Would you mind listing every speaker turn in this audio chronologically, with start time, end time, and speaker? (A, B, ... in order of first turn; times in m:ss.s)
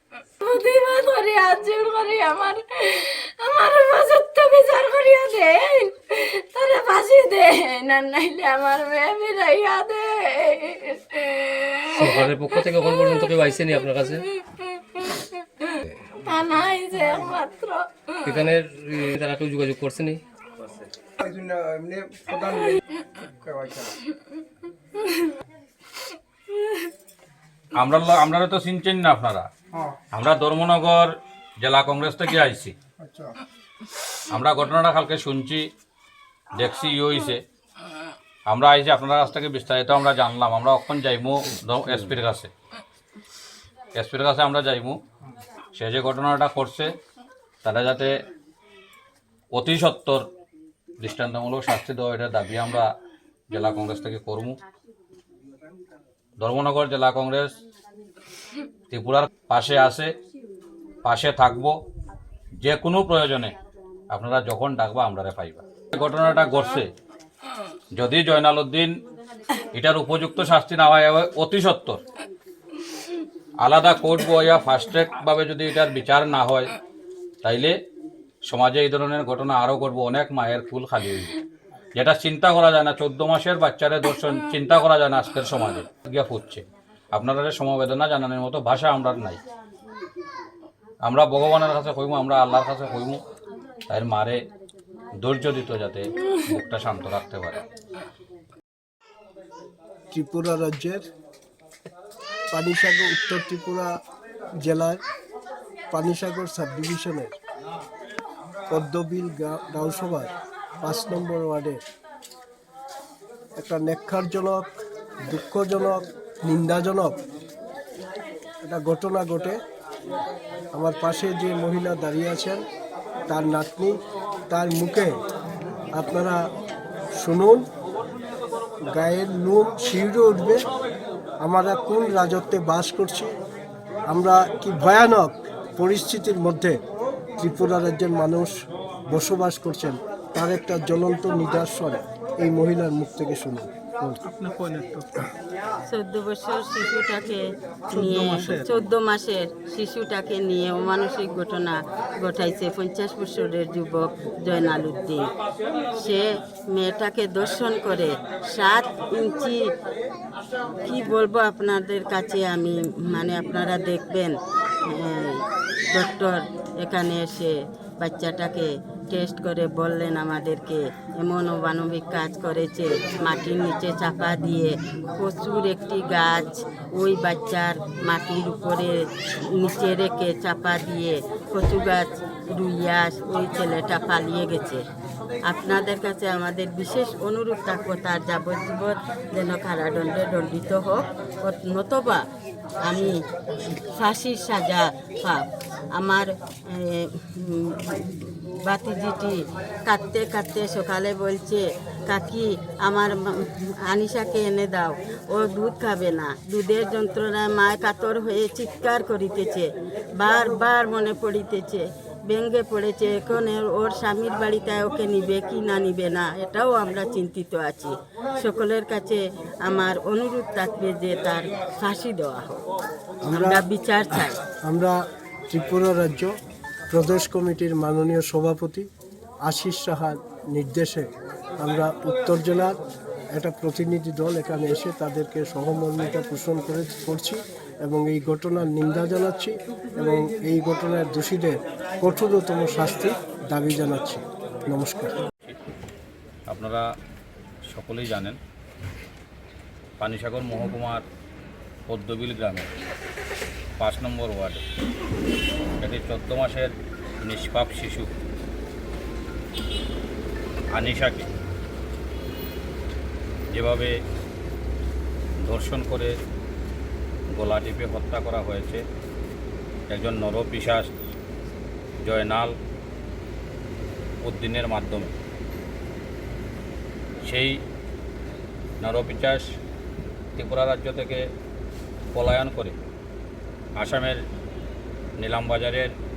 0:00.4-0:18.5 A
0:12.0-0:14.2 B
0:18.2-0:20.2 B
0:21.2-0:22.8 C
0:23.4-0:23.9 C
0:25.0-0:25.3 A
0:26.5-0:26.9 A
0:27.8-0:29.5 D
0:30.1-0:32.7 D
0:33.0-0:33.3 C
0:34.3-0:35.7 D
0:36.5-0:37.4 D
0:38.5-0:42.5 D
0:44.0-0:45.0 D
0:45.8-0:46.9 D
0:47.6-0:48.1 D
0:49.5-0:50.2 D
0:51.0-0:52.9 D
0:53.5-0:54.6 D
0:56.4-0:57.6 D
0:58.9-1:00.1 D
1:01.0-1:01.7 D
1:02.6-1:03.5 D
1:04.1-1:06.9 D
1:07.9-1:09.0 D
1:09.7-1:12.0 D
1:13.6-1:16.7 D
1:17.4-1:17.7 D
1:18.5-1:21.4 D
1:22.0-1:29.4 D
1:31.0-1:33.2 D
1:33.9-1:34.4 D
1:35.2-1:37.6 D
1:40.1-1:41.0 E
1:42.5-1:43.9 E
1:44.6-1:45.0 E
1:45.9-1:47.4 E
1:48.7-1:51.8 E
1:53.6-1:57.2 E
1:58.7-1:59.6 E
2:00.7-2:02.6 E
2:03.3-2:04.0 E
2:04.5-2:05.2 E
2:05.9-2:06.4 E
2:07.2-2:07.7 E
2:08.9-2:10.6 E
2:11.4-2:13.3 E
2:14.1-2:16.8 E
2:17.4-2:18.6 E
2:19.1-2:24.2 E
2:25.9-2:27.4 F
2:27.9-2:28.9 E
2:27.9-2:35.3 F
2:36.0-2:39.6 F
2:40.8-2:44.4 F
2:44.9-2:45.4 F
2:45.9-2:58.9 F
2:59.6-3:04.8 F
3:05.5-3:12.2 F
3:12.9-3:13.2 F
3:14.0-3:15.4 F
3:16.0-3:42.6 F
3:43.2-3:43.6 E
3:43.3-3:44.4 F
3:44.2-3:45.0 E
3:45.5-3:46.3 E
3:46.9-3:48.9 E
3:49.4-3:51.1 E
3:51.6-3:52.8 E
3:53.3-4:05.2 E
4:06.5-4:06.9 D
4:07.7-4:08.4 D
4:10.0-4:11.0 D
4:11.9-4:12.7 D
4:13.8-4:14.6 D
4:15.8-4:16.7 D
4:17.2-4:18.1 D
4:20.7-4:21.3 D
4:23.5-4:23.9 D
4:25.4-4:26.1 D
4:27.4-4:28.8 D
4:29.9-4:30.9 D
4:32.0-4:32.5 D
4:34.2-4:35.1 D
4:37.2-4:37.6 D
4:38.8-4:39.5 D
4:40.4-4:41.2 D
4:42.1-4:42.8 D
4:43.8-4:44.2 D
4:45.2-4:45.9 D